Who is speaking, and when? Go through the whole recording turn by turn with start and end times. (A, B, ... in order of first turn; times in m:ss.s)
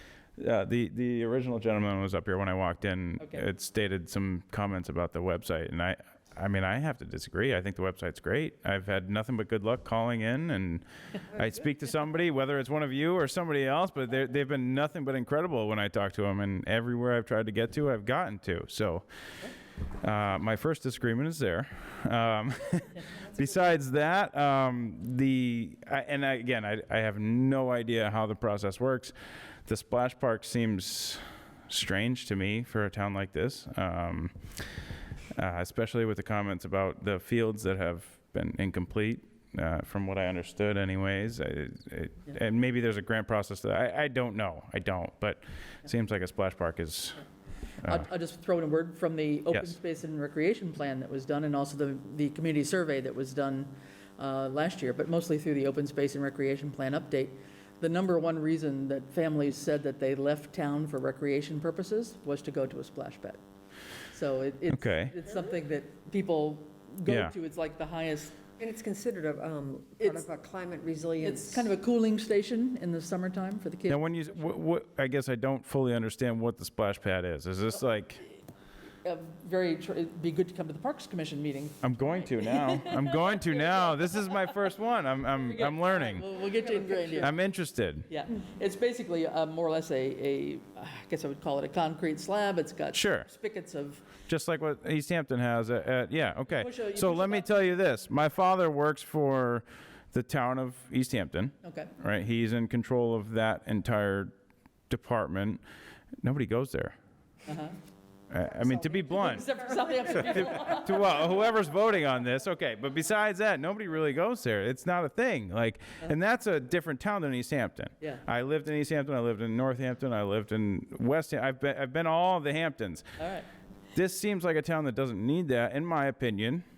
0:00.4-0:19.1 A
0:03.2-0:03.4 B
0:20.0-0:29.1 A
0:29.6-0:34.3 A
0:35.3-0:47.2 A
0:47.8-1:03.4 B
1:04.1-1:08.4 B
1:04.7-1:05.1 A
1:07.1-1:07.3 A
1:08.6-1:11.7 C
1:10.0-1:10.2 B
1:11.2-1:14.0 B
1:13.9-1:18.2 A
1:19.0-1:24.2 B
1:21.8-1:26.4 A
1:25.3-1:27.4 B
1:26.7-1:27.2 C
1:27.2-1:28.0 A
1:28.1-1:34.0 B
1:32.9-1:33.3 A
1:34.3-1:44.3 A
1:36.5-1:37.7 B
1:41.6-1:41.9 B
1:44.9-1:45.6 A
1:46.2-1:47.0 A
1:47.4-1:47.8 B
1:48.3-1:49.5 A
1:49.0-1:51.3 B
1:50.1-2:03.1 A
2:03.2-2:03.5 B
2:03.9-2:06.6 A